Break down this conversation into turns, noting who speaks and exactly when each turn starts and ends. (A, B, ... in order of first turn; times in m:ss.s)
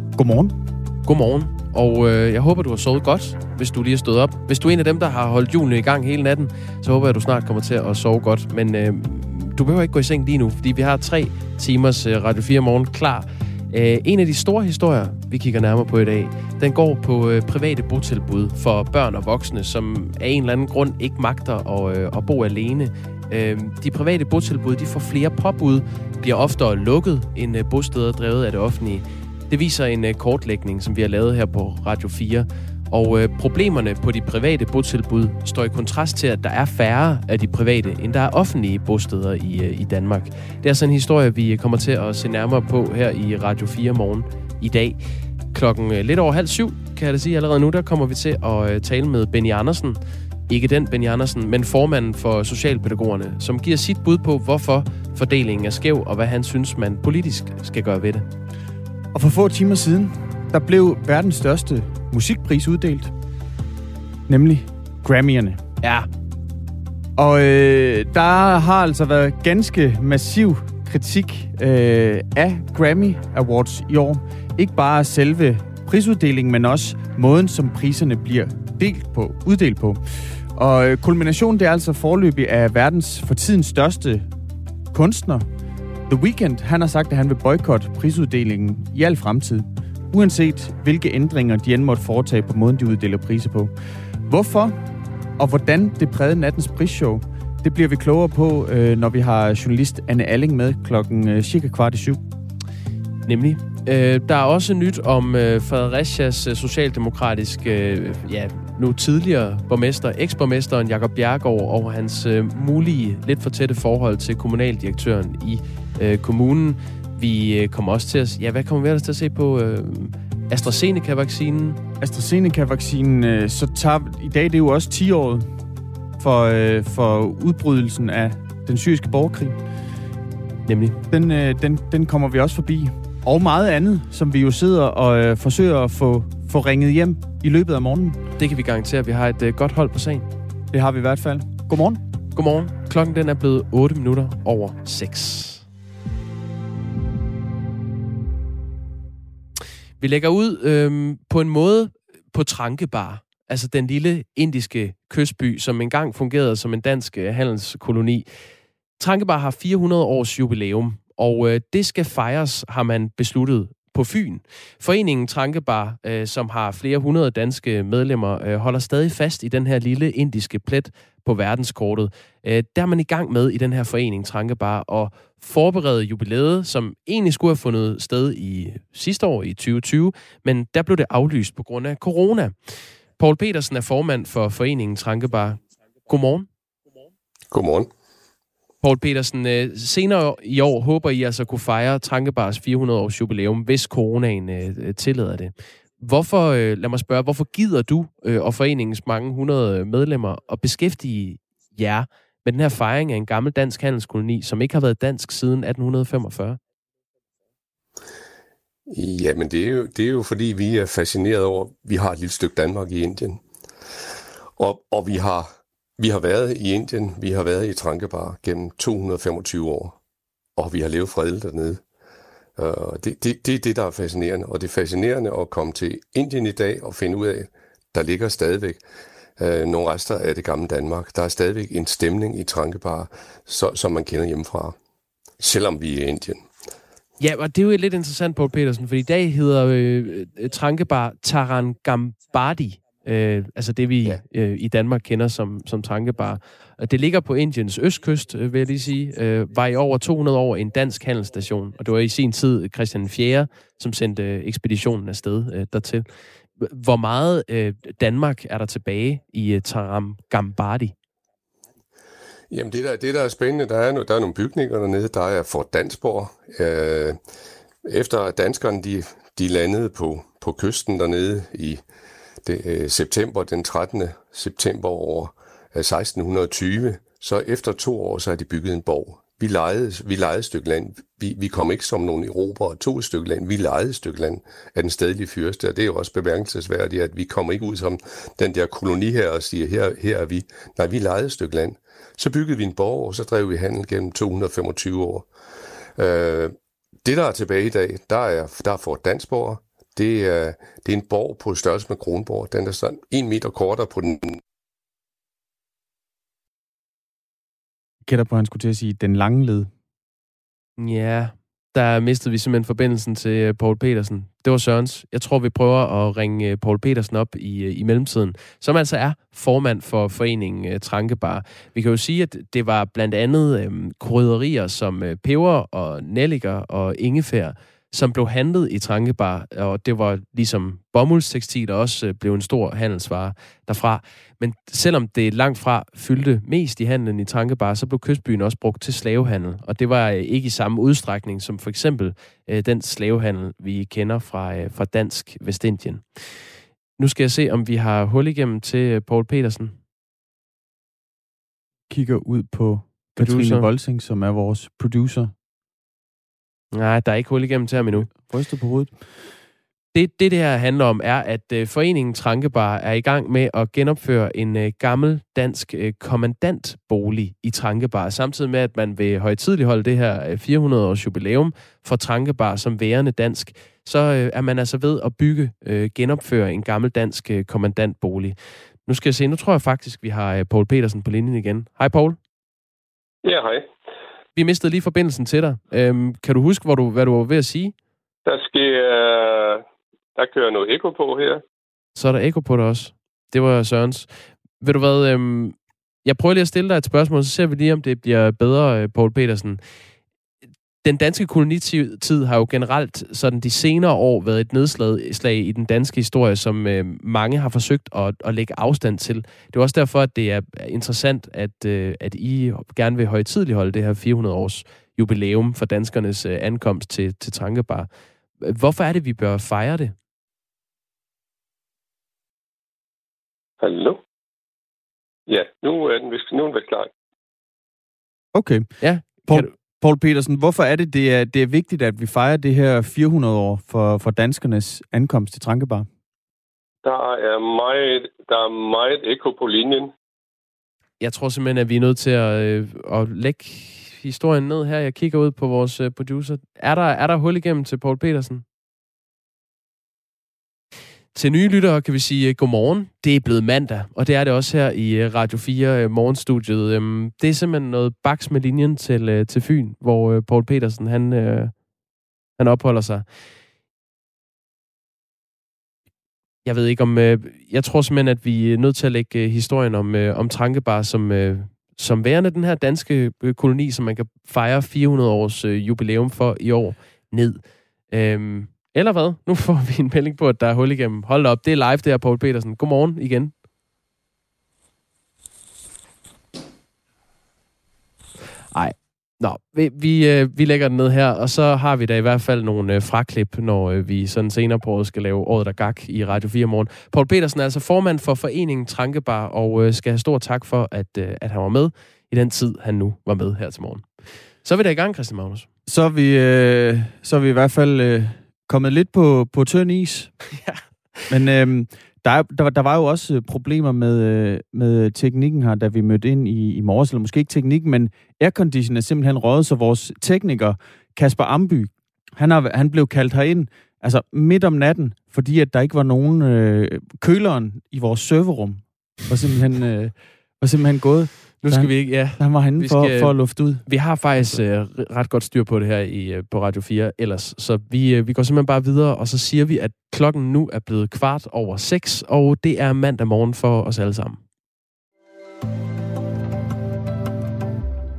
0:00.1-0:00.6 A
0:01.0-0:45.0 B
0:45.5-0:58.3 B
0:59.1-1:03.1 A
1:04.3-1:05.6 A
1:05.8-1:06.1 B
1:07.2-1:24.3 A
1:24.9-1:25.5 A
1:26.1-1:33.7 A
1:34.2-1:34.8 A
1:35.4-1:42.2 A
1:43.2-2:01.8 B
2:02.0-2:05.5 A
2:06.2-2:09.6 A
2:10.6-2:11.0 B
2:11.1-2:18.2 A
2:18.4-2:20.3 B
2:20.7-2:22.0 A
2:22.3-2:25.6 B
2:30.0-2:38.3 B
2:39.0-3:06.5 B
3:07.5-3:07.9 C
3:08.8-3:26.6 B
3:28.9-3:33.4 C
3:34.6-3:40.0 C
3:40.6-3:41.8 C
3:42.6-3:48.8 C
3:49.4-3:54.8 C
3:55.4-3:56.5 C
3:57.2-4:20.9 B
4:22.5-4:27.2 C
4:27.8-4:31.8 C
4:32.4-4:55.3 C
4:56.0-5:04.4 C
5:08.0-5:09.7 A
5:10.8-5:46.3 B
5:47.0-5:49.8 B
5:51.9-5:55.3 A
5:53.2-5:53.7 B
5:56.7-5:58.1 B
5:57.8-5:59.2 A
5:59.9-6:22.2 B
6:23.2-6:23.7 D
6:24.3-6:27.7 B
6:28.2-6:29.6 D
6:30.2-6:31.4 D
6:32.0-6:39.6 B
6:40.8-6:59.9 B
7:03.6-7:04.0 D
7:05.3-7:06.9 D
7:08.3-7:08.7 A
7:08.8-7:09.5 B
7:09.2-7:15.9 A
7:16.8-7:19.9 D
7:21.0-7:28.4 B
7:31.1-7:41.6 B
7:42.4-7:43.1 B
7:46.4-8:03.3 B
8:08.5-8:23.9 B
8:24.4-8:25.5 B
8:25.6-8:30.1 A
8:30.4-8:30.6 B
8:31.1-8:53.6 A
8:51.4-9:04.2 B
8:54.2-8:54.4 A